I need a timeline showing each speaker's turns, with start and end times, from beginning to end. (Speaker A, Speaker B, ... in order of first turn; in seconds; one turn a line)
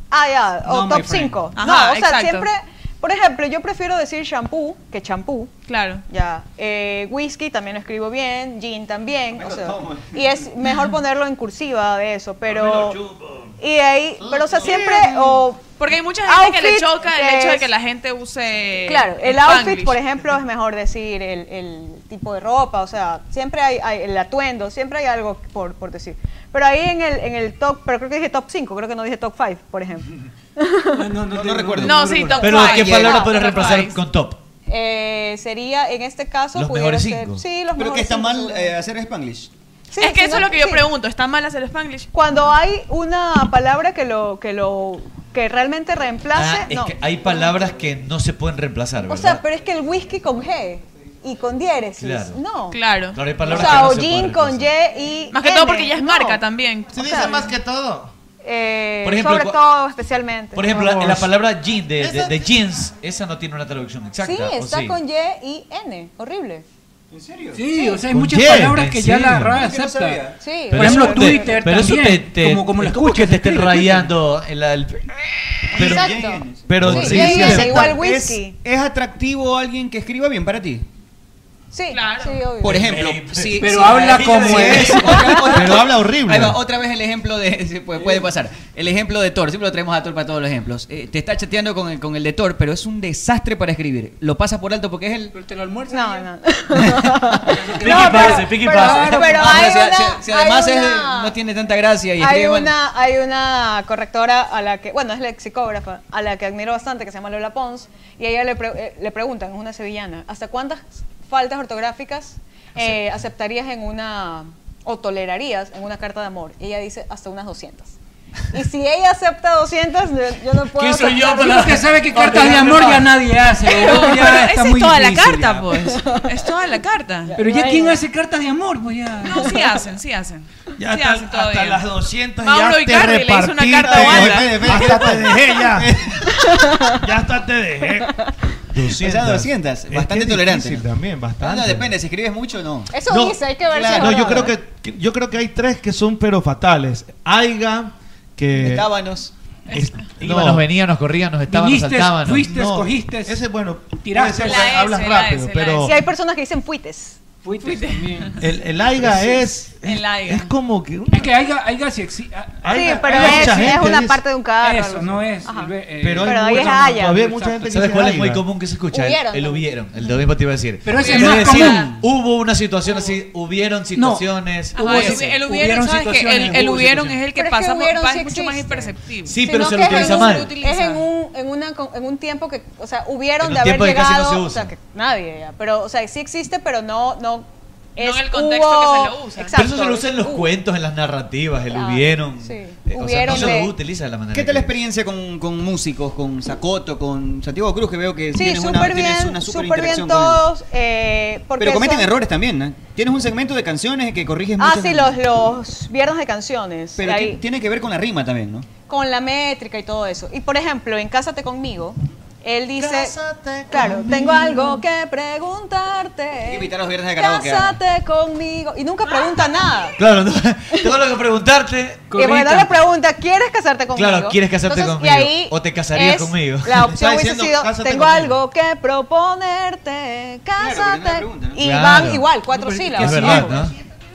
Speaker A: 0.1-5.5
Speaker B: 0.6-1.5
Speaker C: 1.6-2.5
Speaker C: 5.7-6.0
Speaker A: 6.1-13.0
Speaker D: 9.3-10.2
Speaker E: 12.4-13.5
Speaker A: 13.6-15.7
Speaker E: 14.2-15.4
Speaker C: 15.8-20.0
Speaker A: 16.2-17.7
Speaker A: 18.9-31.1
Speaker B: 30.9-32.8
Speaker D: 31.3-32.3
Speaker C: 31.8-34.0
Speaker F: 32.4-34.4
Speaker A: 32.9-33.6
Speaker A: 34.7-38.8
Speaker F: 36.5-37.4
Speaker D: 37.8-39.5
Speaker A: 39.9-40.8
Speaker C: 40.0-42.1
Speaker A: 42.1-47.0
Speaker F: 46.3-49.4
Speaker A: 49.1-52.8
Speaker F: 52.0-52.4
Speaker C: 52.7-53.2
Speaker F: 53.1-54.7
Speaker A: 53.4-56.4
Speaker C: 55.3-57.0
Speaker E: 56.9-58.1
Speaker A: 56.9-57.5
Speaker A: 58.4-60.8
Speaker F: 59.0-59.6
Speaker F: 60.5-65.0
Speaker E: 60.8-61.2
Speaker E: 62.0-62.5
Speaker A: 64.2-66.6
Speaker D: 67.1-67.7
Speaker B: 67.5-74.1
Speaker E: 68.1-68.8
Speaker F: 68.6-69.6
Speaker D: 69.5-70.4
Speaker A: 70.4-71.6
Speaker F: 70.7-75.1
Speaker F: 75.7-76.1
Speaker D: 75.7-80.8
Speaker A: 75.7-78.6
Speaker E: 76.6-78.0
Speaker F: 76.8-77.8
Speaker A: 81.7-82.9
Speaker C: 81.9-82.4
Speaker D: 82.6-95.3
Speaker F: 82.6-85.2
Speaker B: 83.5-85.3
Speaker A: 85.1-85.6
Speaker E: 85.5-86.6
Speaker B: 95.3-96.3
Speaker A: 95.9-101.3
Speaker B: 97.4-99.7
Speaker F: 97.8-99.7
Speaker D: 99.3-102.7
Speaker A: 102.2-117.9
Speaker A: 118.5-121.8
Speaker F: 120.8-122.9
Speaker B: 121.0-125.8
Speaker C: 123.7-127.4
Speaker A: 123.7-124.2
Speaker A: 125.9-126.5
Speaker A: 127.3-128.0
Speaker B: 127.3-129.6
Speaker C: 129.2-131.8
Speaker A: 129.4-129.7
Speaker E: 130.8-136.0
Speaker C: 132.4-134.8
Speaker D: 133.8-136.2
Speaker A: 136.2-137.1
Speaker E: 136.9-138.1
Speaker E: 138.7-141.9
Speaker D: 138.9-140.8
Speaker D: 141.4-142.9
Speaker A: 142.9-144.6
Speaker E: 143.0-148.9
Speaker D: 143.7-144.4
Speaker D: 148.6-149.3
Speaker E: 149.7-150.6
Speaker F: 150.2-152.5
Speaker B: 151.5-153.4
Speaker E: 152.4-156.0
Speaker B: 153.9-154.7
Speaker C: 154.4-155.9
Speaker A: 155.8-157.2
Speaker B: 157.4-158.5
Speaker C: 157.6-158.4
Speaker E: 158.4-161.3
Speaker C: 159.8-160.5
Speaker B: 161.1-163.9
Speaker E: 162.6-164.2
Speaker A: 162.7-167.3
Speaker B: 164.6-167.8
Speaker E: 166.0-168.4
Speaker F: 167.7-175.2
Speaker A: 168.9-169.7
Speaker B: 170.8-172.0
Speaker C: 170.9-171.9
Speaker B: 173.9-177.2
Speaker C: 174.7-181.1
Speaker A: 177.3-190.5
Speaker F: 179.2-180.5
Speaker F: 183.4-184.7
Speaker C: 188.0-189.5
Speaker F: 189.5-194.8
Speaker A: 191.7-193.8
Speaker D: 193.2-193.7
Speaker D: 194.3-200.4
Speaker A: 198.3-202.1
Speaker D: 201.6-205.2
Speaker A: 204.6-207.4
Speaker D: 207.0-208.7
Speaker A: 208.8-213.2
Speaker E: 212.8-214.8
Speaker A: 213.7-220.0
Speaker D: 216.4-217.8
Speaker F: 220.0-222.2
Speaker A: 220.7-221.0
Speaker B: 222.1-222.8
Speaker A: 222.1-233.6
Speaker F: 223.9-226.8
Speaker E: 226.7-228.4
Speaker D: 230.6-231.7
Speaker F: 231.6-232.3
Speaker B: 232.5-233.4
Speaker F: 232.9-233.7
Speaker E: 233.0-233.5